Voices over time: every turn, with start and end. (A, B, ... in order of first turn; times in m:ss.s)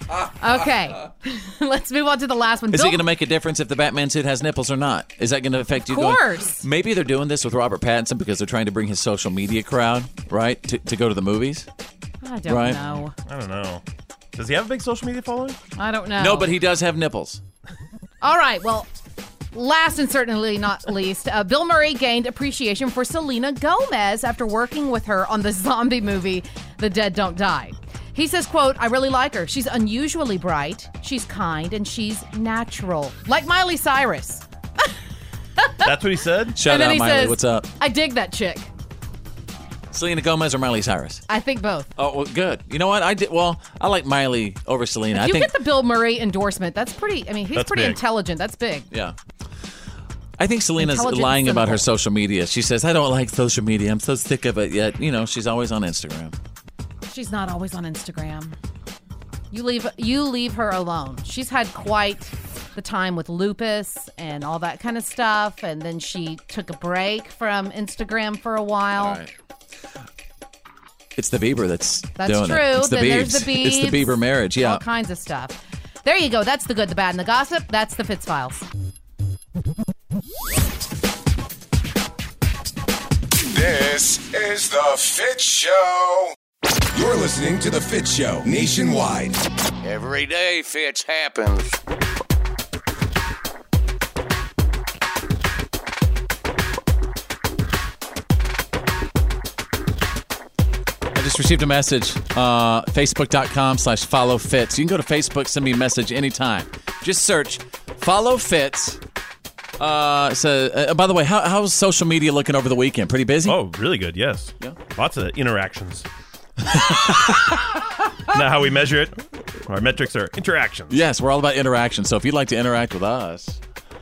0:00.4-0:03.0 A
0:02.7-0:11.7 B
0:05.9-0:06.6 A
0:12.2-0:13.2 A
0:12.5-0:12.8 B
0:13.3-0:13.8 C
0:14.4-0:15.6 C
0:15.8-0:16.5 A
0:16.2-0:17.4 B
0:18.2-0:18.9 A
0:19.5-0:34.4 A
0:35.6-0:35.9 A
0:35.8-0:36.6 C
0:36.6-0:37.7 B
0:36.6-0:38.7 A
0:39.9-0:41.2 B
0:41.3-0:41.9 A
0:42.0-0:45.5 B
0:45.2-0:48.9 A
0:47.6-0:48.0 C
0:48.9-0:49.2 B
0:50.4-0:56.4 B
0:50.8-0:51.9 A
0:57.1-0:58.6 A
0:59.5-1:09.2 A
1:09.0-1:09.3 B
1:11.2-1:14.8 B
1:12.2-1:18.7 A
1:23.5-1:26.3 D
1:26.9-1:29.4 D
1:29.8-1:31.8 E
1:41.1-1:49.0 B
1:49.8-1:53.6 B
1:53.5-1:56.1 C
1:56.9-1:57.3 B
1:56.9-1:57.4 C
1:58.3-2:01.0 C
2:00.9-2:03.6 B